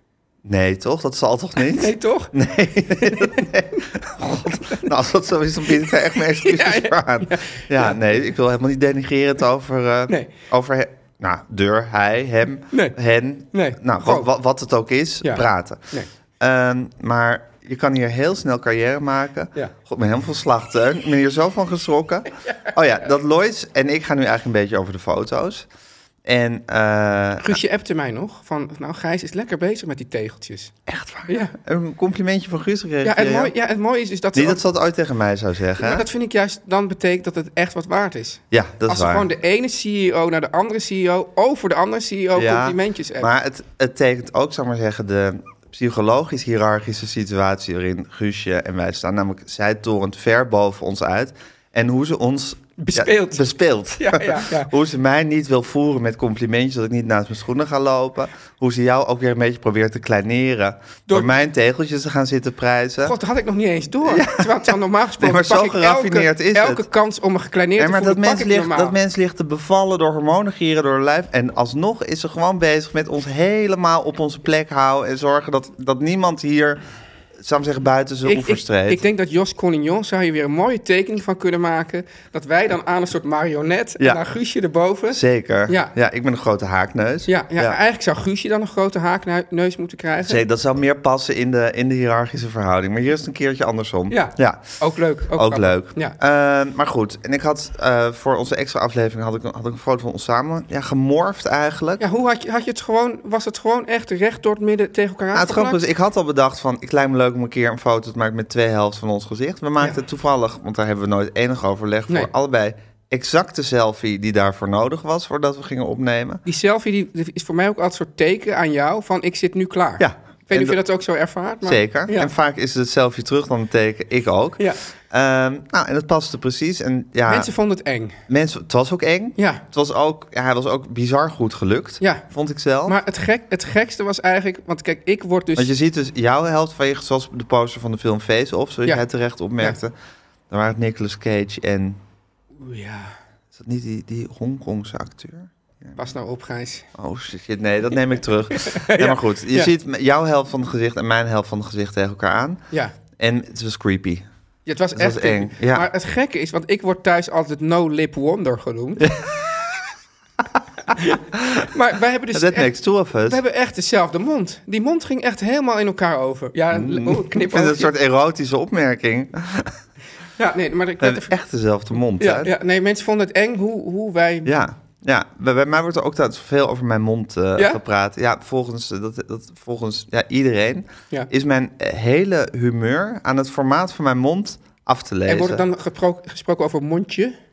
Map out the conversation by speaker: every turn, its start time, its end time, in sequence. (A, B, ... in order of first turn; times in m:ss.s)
0:00.4-0:25.7 A
0:01.7-0:02.3 B
0:03.0-0:03.5 B
0:05.7-0:08.0 B
0:13.5-0:14.3 B
0:15.2-0:16.1 B
0:26.2-0:27.6 A
0:27.4-0:30.7 B
0:30.9-0:33.5 A
0:31.3-0:31.5 B
0:33.0-0:34.6 B
0:34.3-0:36.0 A
0:35.8-0:43.3 B
0:38.5-0:39.3 A
0:42.3-1:03.2 A
0:52.8-0:54.7 B
1:03.0-1:08.9 B
1:04.0-1:06.8 A
1:07.8-1:16.8 A
1:17.4-1:19.0 A
1:18.2-1:25.9 B
1:25.1-1:27.8 A
1:27.3-1:30.4 B
1:30.2-1:34.8 A
1:34.1-1:36.2 B
1:35.3-1:42.0 A
1:42.0-1:45.8 B
1:45.3-1:56.4 A
1:56.4-2:02.3 B
2:00.0-2:00.8 A
2:01.6-2:07.5 A
2:07.3-2:08.2 B
2:08.3-2:13.0 A
2:09.4-2:09.6 B
2:12.0-2:12.2 B
2:12.8-2:15.7 B
2:15.6-2:19.9 A
2:20.5-2:22.0 A
2:22.6-2:23.1 B
2:23.5-2:26.0 A
2:26.0-2:26.8 B
2:26.9-2:32.6 A
2:28.6-2:29.7 B
2:33.2-2:34.2 A
2:34.6-2:39.1 B
2:34.9-2:35.9 A
2:39.0-2:39.7 A
2:40.9-2:42.7 B
2:41.3-2:41.7 A
2:42.3-2:43.4 A
2:43.2-2:47.9 B
2:46.7-2:49.8 A
2:50.4-2:51.3 B
2:51.0-2:52.5 A
2:52.2-2:54.5 B
2:54.4-3:05.6 A
3:05.3-3:07.3 B